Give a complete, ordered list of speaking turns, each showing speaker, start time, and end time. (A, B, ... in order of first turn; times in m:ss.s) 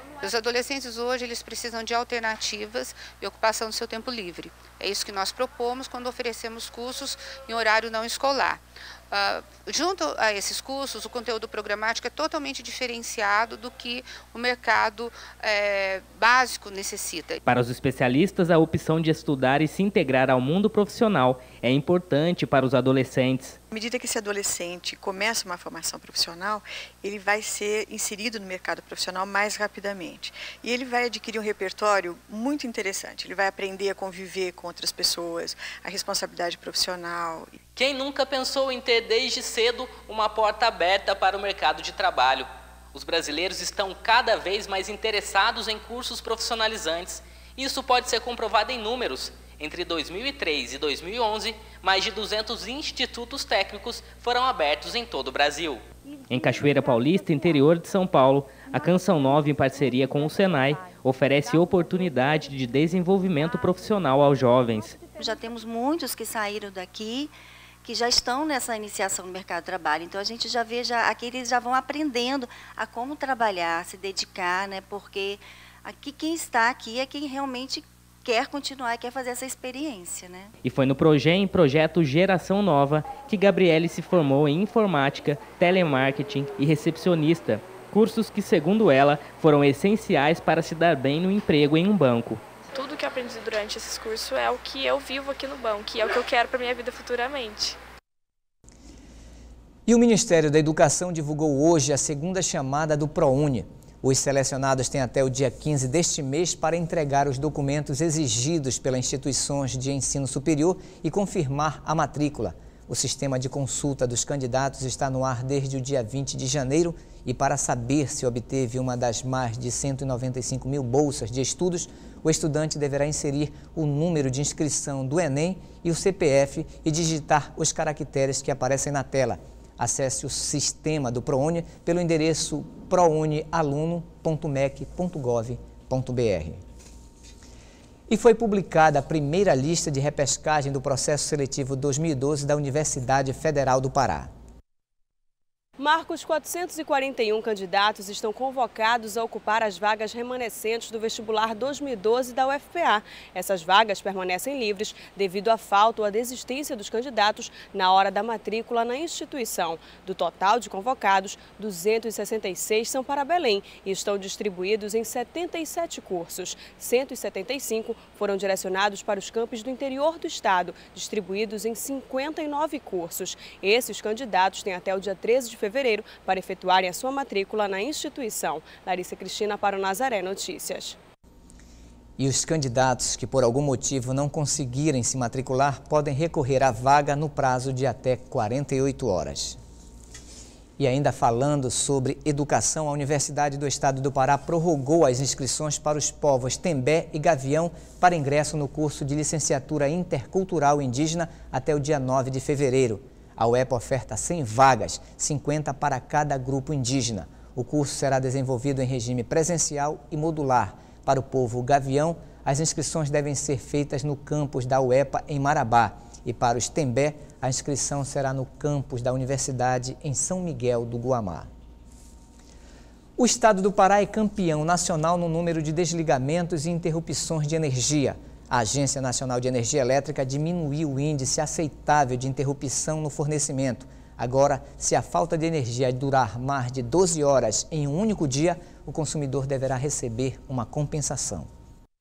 0:00.2-0:17.4 A
0:17.4-0:23.6 B
0:23.7-0:37.6 C
0:37.8-1:05.1 B
1:05.1-1:20.5 D
1:20.6-1:32.4 B
1:32.7-1:37.8 E
1:39.9-2:16.6 F
2:18.1-2:24.3 F
2:25.8-3:01.0 G
3:02.2-3:09.6 F
3:10.8-3:41.5 F
3:43.2-4:01.5 F